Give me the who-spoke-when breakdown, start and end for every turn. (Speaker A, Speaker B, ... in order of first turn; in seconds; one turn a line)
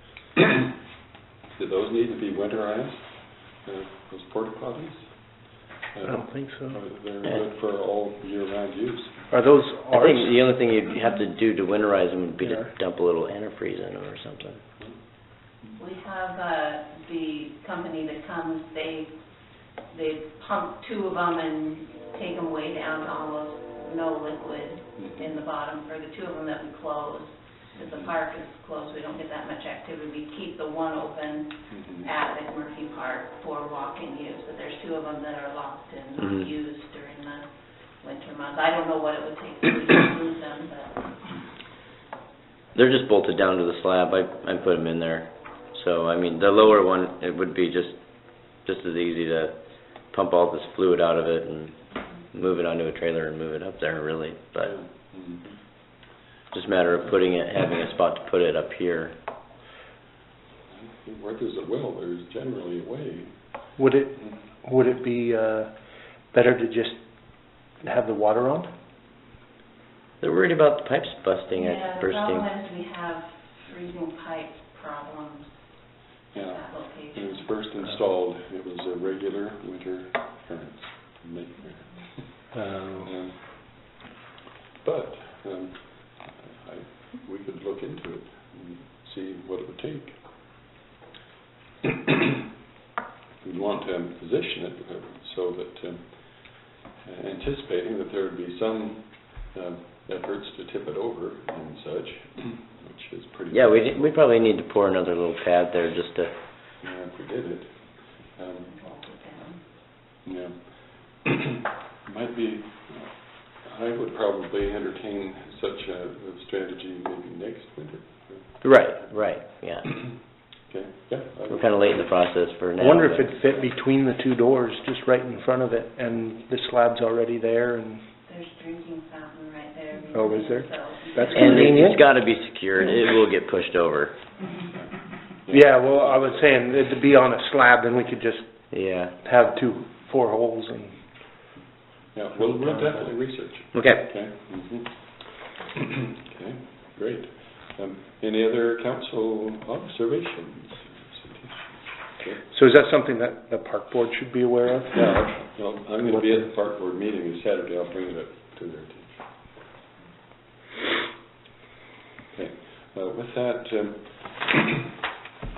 Speaker A: 1.5-9.3
Speaker B: 6.1-6.8
Speaker B: 9.3-10.4
Speaker C: 9.9-14.6
Speaker B: 12.4-12.7
Speaker A: 14.8-15.8
Speaker D: 15.8-19.1
Speaker D: 19.7-37.5
Speaker A: 25.0-25.3
Speaker A: 27.8-28.1
Speaker A: 31.7-32.1
Speaker C: 36.2-36.5
Speaker D: 38.0-41.4
Speaker C: 42.7-54.7
Speaker A: 54.6-55.6
Speaker C: 56.5-59.2
Speaker A: 60.7-63.7
Speaker B: 63.8-68.7
Speaker C: 70.2-72.5
Speaker D: 71.5-75.6
Speaker D: 76.3-77.5
Speaker A: 76.3-84.0
Speaker B: 82.5-83.1
Speaker A: 84.8-90.7
Speaker A: 93.4-104.2
Speaker C: 103.5-106.3
Speaker A: 106.8-108.8
Speaker D: 108.8-109.6
Speaker A: 110.2-122.3
Speaker C: 118.6-120.0
Speaker C: 121.5-123.3
Speaker B: 122.8-128.0
Speaker D: 128.3-132.0
Speaker B: 130.1-132.0
Speaker C: 131.3-134.2
Speaker A: 135.4-136.4
Speaker B: 135.5-141.0
Speaker C: 138.7-139.2
Speaker A: 142.1-145.7
Speaker C: 143.7-144.1
Speaker A: 146.2-152.4
Speaker B: 152.5-155.3
Speaker A: 154.9-159.6
Speaker A: 162.3-164.9